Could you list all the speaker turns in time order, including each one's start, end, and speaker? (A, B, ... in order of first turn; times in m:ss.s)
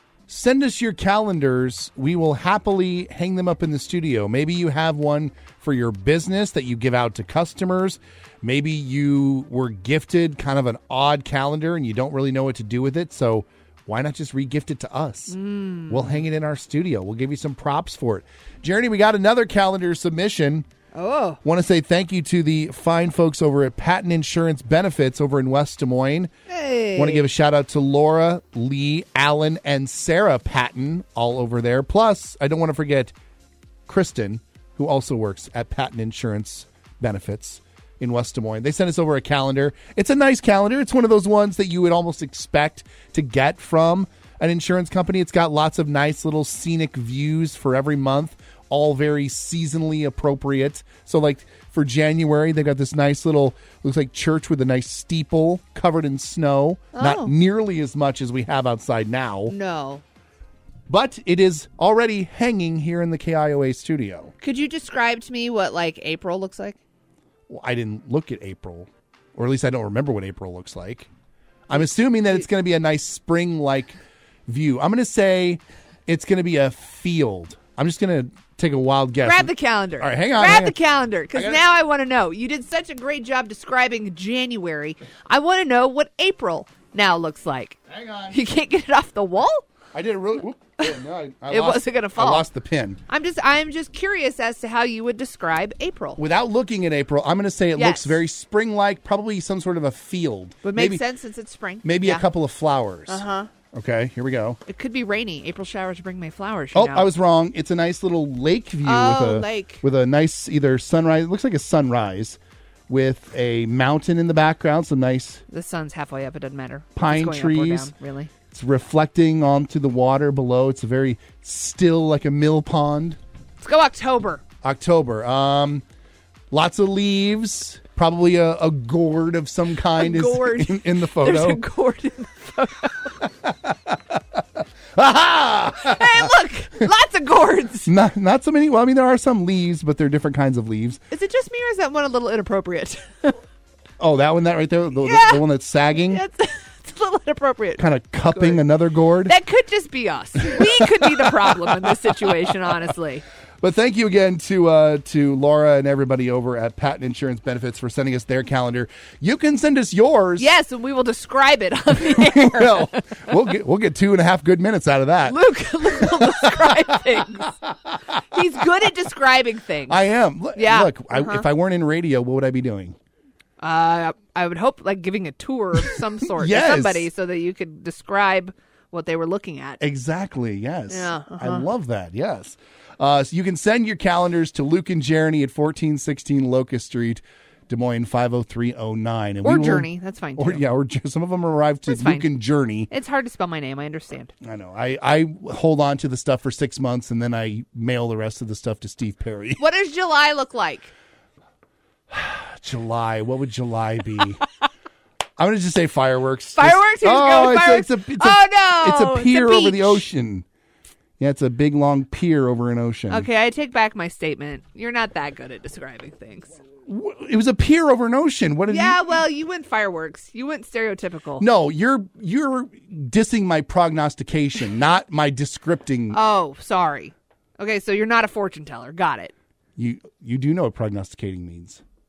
0:00.3-0:15.4 A
0:15.3-0:16.2 B
0:15.9-0:20.7 A
0:20.9-0:21.4 B
0:21.4-0:26.3 A
0:26.5-0:27.3 B
0:27.0-0:33.1 A
0:33.9-0:59.6 A
0:56.9-0:57.3 B
0:59.5-1:00.0 B
1:00.9-1:04.3 A
1:04.4-1:06.8 B
1:07.5-1:11.1 A
1:11.7-1:20.8 A
1:19.2-1:27.8 B
1:21.3-1:21.6 A
1:27.9-1:28.4 A
1:28.3-1:29.7 B
1:29.9-1:33.0 A
1:30.8-1:32.5 B
1:33.1-1:36.2 B
1:36.2-1:41.0 A
1:37.8-1:38.2 B
1:40.6-1:42.3 B
1:41.8-1:44.6 A
1:43.1-1:43.5 B
1:44.7-1:47.1 B
1:46.7-1:55.4 A
1:48.8-1:49.8 B
1:55.5-1:58.3 B
1:57.0-1:57.9 A
1:58.5-2:03.2 A
2:03.6-2:04.4 B
2:04.6-2:05.8 A
2:06.5-2:11.6 A
2:10.0-2:13.2 B
2:13.4-2:14.2 A
2:15.0-2:16.3 A
2:15.7-2:17.9 B
2:17.8-2:21.0 A
2:21.1-2:23.4 B
2:24.0-2:26.2 A
2:25.0-2:25.4 B
2:26.0-2:28.6 B
2:27.8-2:29.3 A
2:29.2-2:33.2 B
2:30.5-2:31.3 A
2:33.6-2:40.6 A
2:40.4-2:43.3 B
2:42.0-2:47.1 A
2:45.2-2:47.6 B
2:48.3-2:51.5 B
2:49.9-2:53.0 A
2:53.6-2:59.8 B
2:56.3-2:57.1 A
2:59.8-3:12.9 A
3:00.9-3:01.7 B
3:09.4-3:10.6 B
3:11.9-3:12.3 B
3:12.9-3:14.3 B
3:14.4-3:19.6 A
3:19.6-3:20.9 B
3:22.1-3:24.4 A
3:25.4-3:30.4 A
3:26.6-3:30.1 B
3:31.2-3:33.3 A
3:33.1-3:36.5 B
3:36.9-3:39.1 A
3:38.7-3:41.5 B
3:41.4-3:46.2 A
3:46.1-3:49.3 B
3:49.8-3:51.8 A